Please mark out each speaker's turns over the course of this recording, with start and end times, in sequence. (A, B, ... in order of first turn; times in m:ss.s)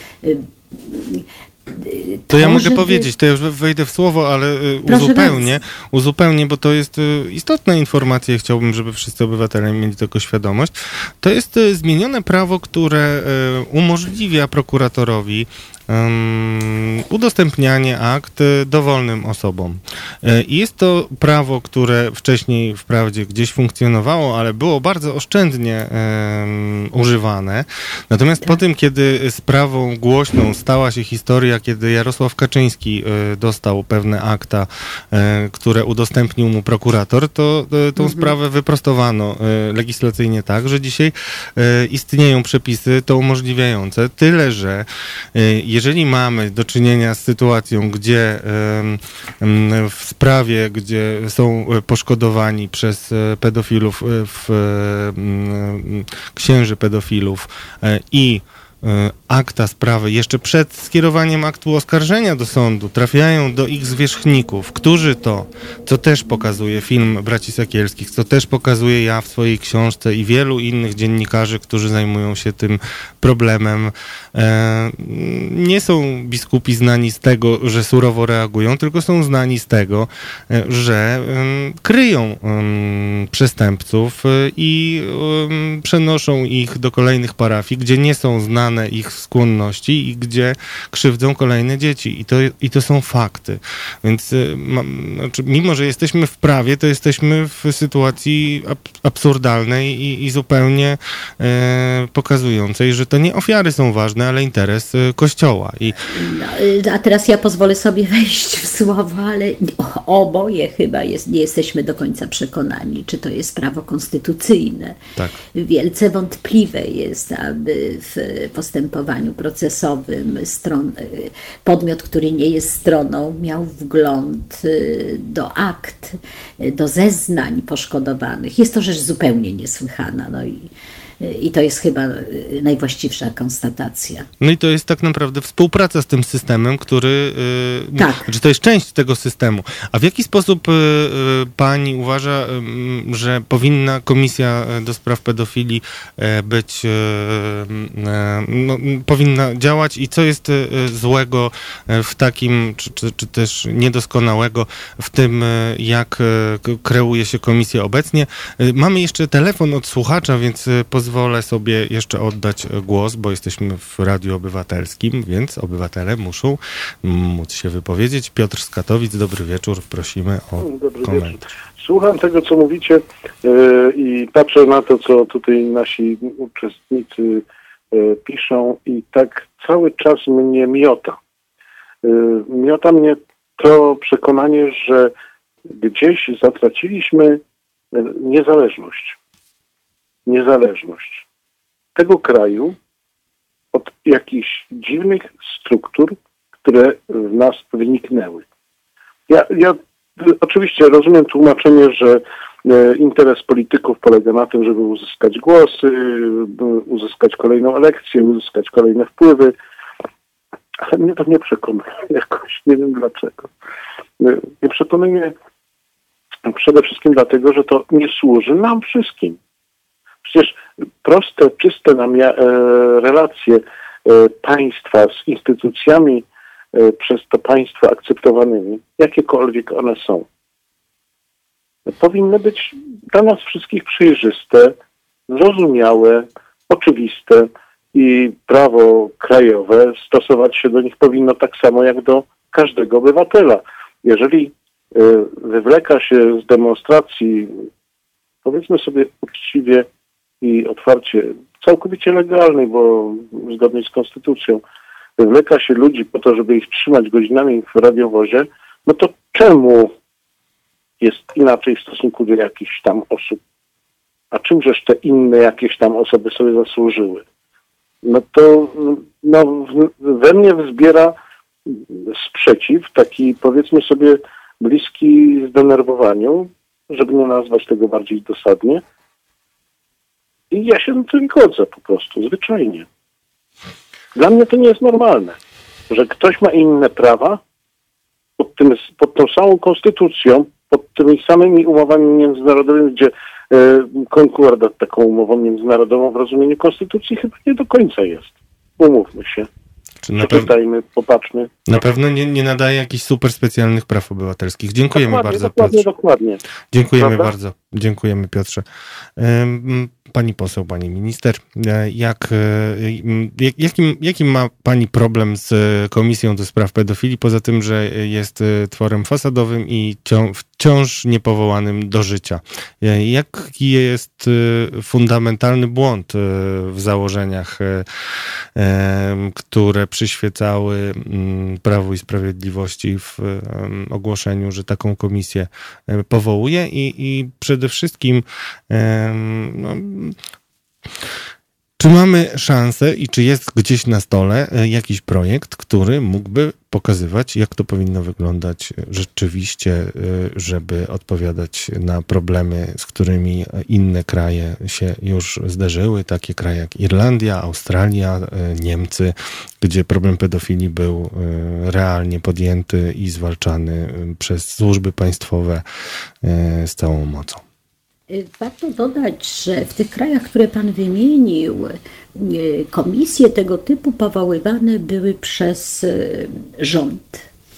0:00.2-0:03.1 A
0:02.3-1:46.0 B
0:04.9-0:05.6 A
0:38.0-0:38.3 A
1:46.1-1:55.0 A
1:55.6-2:14.3 A
2:14.4-2:51.4 B
2:18.0-2:18.3 A
2:50.6-3:01.2 C
3:02.0-3:05.1 C
3:05.7-3:07.4 C
3:07.9-3:09.2 C
3:10.3-3:11.2 C
3:12.0-3:12.8 C
3:13.7-3:18.4 C
3:19.3-3:29.5 C
3:30.8-3:33.5 C
3:34.2-3:35.3 C
3:36.4-3:39.4 C
3:40.2-3:50.3 C
3:51.9-3:54.8 C
3:55.3-4:07.7 C
4:08.4-4:09.9 C
4:10.4-4:14.6 C
4:15.2-4:19.9 C
4:21.0-4:23.4 C
4:24.3-4:27.2 C
4:28.0-4:31.2 C
4:31.7-4:38.8 C
4:40.5-4:42.9 C
4:44.2-4:45.4 C
4:45.9-4:47.4 C
4:48.4-4:59.5 C
5:00.0-5:00.5 B
5:00.2-5:01.5 C
5:01.7-5:05.8 B
5:04.9-5:06.4 C
5:06.7-5:08.6 B
5:07.0-5:07.3 C
5:09.2-5:27.8 B
5:28.6-5:40.2 B
5:41.8-6:05.6 B
6:06.2-6:07.4 B
6:08.1-6:17.3 A